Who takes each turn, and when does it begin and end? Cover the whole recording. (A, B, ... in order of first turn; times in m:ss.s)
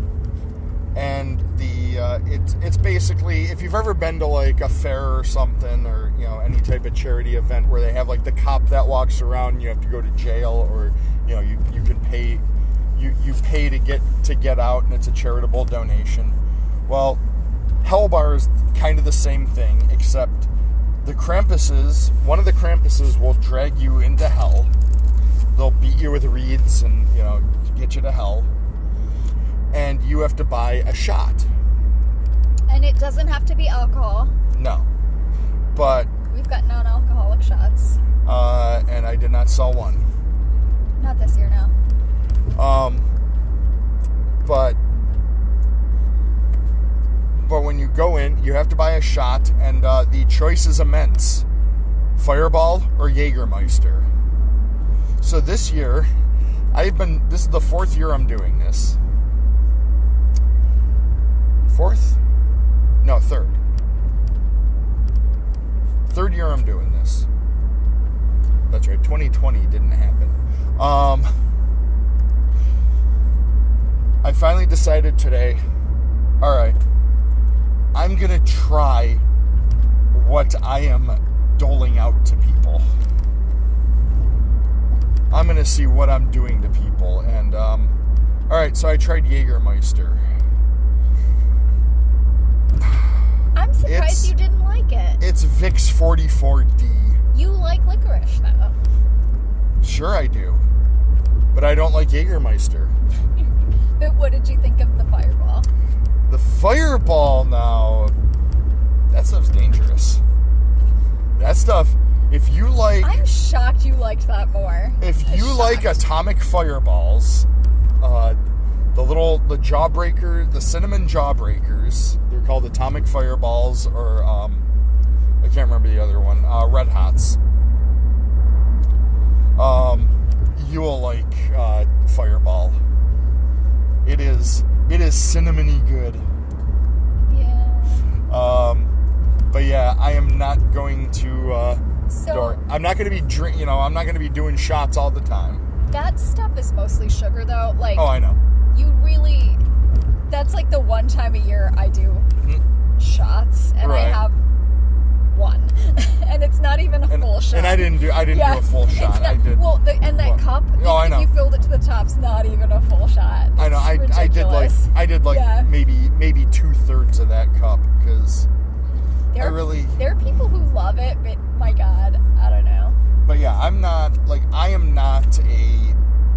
0:00.9-0:17.2 A
0:17.8-0:20.5 A
0:21.0-0:24.7 A
0:25.5-0:28.5 A
0:29.7-0:31.5 A
0:32.7-0:34.3 B
0:34.5-0:34.9 A
0:35.7-0:36.1 A
0:36.3-0:38.0 B
0:38.2-0:40.1 A
0:41.0-0:41.7 B
0:42.5-0:43.1 A
0:44.4-0:44.8 A
0:47.4-0:51.5 A
0:52.2-0:54.1 A
0:55.2-0:56.1 A
0:56.7-0:59.0 A
1:01.7-1:02.2 A
1:03.0-1:03.6 A
1:06.1-1:07.3 A
1:08.7-1:11.3 A
1:14.2-1:15.6 A
1:16.4-1:16.8 A
1:17.9-1:19.2 A
1:20.1-1:22.9 A
1:25.3-1:27.9 A
1:28.5-1:30.2 A
1:33.6-1:35.2 B
1:33.8-1:34.3 A
1:35.2-1:37.2 A
1:37.3-1:38.8 B
1:39.8-1:40.6 A
1:41.5-1:43.0 A
1:44.0-1:45.7 B
1:46.3-1:48.2 A
1:49.1-1:50.2 A
1:51.4-1:53.2 A
1:53.0-1:56.0 B
1:55.0-1:57.5 A
1:58.0-1:58.4 A
1:58.9-2:04.7 A
2:05.4-2:07.4 A
2:09.6-2:12.8 A
2:14.0-2:16.2 A
2:17.3-2:18.1 B
2:18.3-2:18.9 A
2:19.5-2:25.6 A
2:22.1-2:22.6 B
2:25.9-2:28.2 B
2:27.9-2:28.4 A
2:28.7-2:29.6 B
2:30.3-2:32.3 B
2:33.0-2:34.4 B
2:33.8-2:34.3 A
2:35.3-2:45.7 B
2:37.1-2:41.3 A
2:43.6-2:48.5 A
2:49.3-2:53.0 B
2:49.4-2:50.0 A
2:53.2-2:56.0 A